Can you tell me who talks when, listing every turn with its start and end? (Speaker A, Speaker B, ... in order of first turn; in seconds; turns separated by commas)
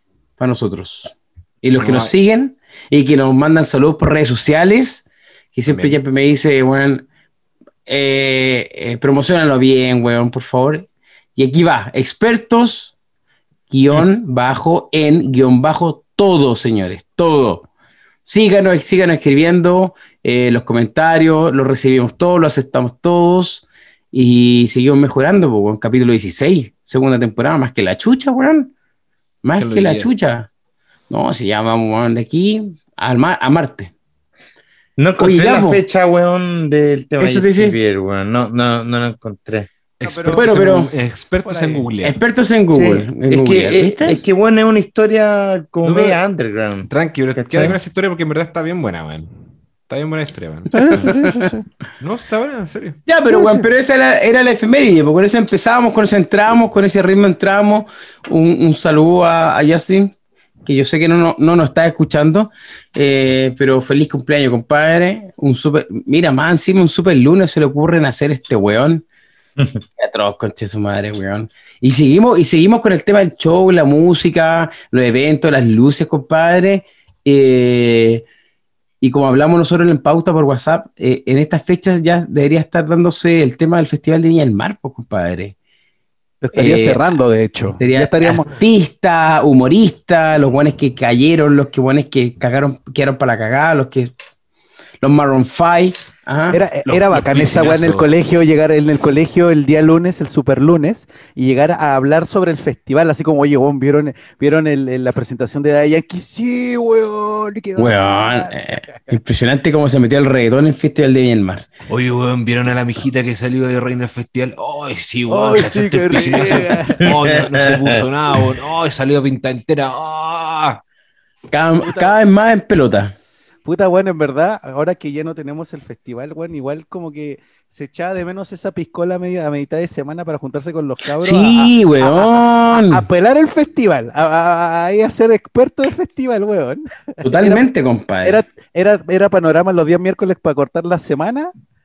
Speaker A: 0.4-7.0, Speaker B: 1.8-2.1, Speaker B: 5.7-6.0, Speaker A: 7.9-12.9, Speaker A: 13.7-17.6, Speaker A: 18.2-28.7, Speaker A: 29.4-30.5, Speaker B: 29.6-30.1, Speaker A: 31.1-33.9, Speaker C: 35.0-39.7, Speaker A: 35.2-35.8, Speaker A: 37.2-37.8, Speaker B: 40.0-42.2, Speaker D: 40.0-40.5, Speaker A: 40.3-40.9, Speaker D: 41.4-41.9, Speaker A: 42.0-44.2, Speaker C: 42.7-47.8, Speaker B: 45.8-46.2, Speaker B: 46.9-49.3, Speaker B: 49.9-51.0, Speaker D: 50.7-51.6, Speaker A: 51.0-51.5, Speaker B: 52.0-53.0, Speaker A: 53.1-60.1, Speaker D: 53.3-53.7, Speaker A: 60.6-69.0, Speaker A: 70.0-78.2, Speaker A: 79.0-85.5, Speaker D: 86.4-88.5, Speaker A: 86.5-87.2, Speaker A: 87.8-94.1, Speaker A: 95.0-96.6, Speaker D: 96.5-108.9, Speaker B: 96.9-98.1, Speaker A: 107.8-111.7, Speaker B: 111.9-120.8, Speaker D: 115.3-117.1, Speaker C: 117.0-118.0, Speaker A: 121.5-123.1, Speaker D: 121.8-122.2, Speaker D: 123.6-137.6, Speaker A: 131.2-133.0, Speaker A: 137.2-138.4, Speaker D: 138.2-141.5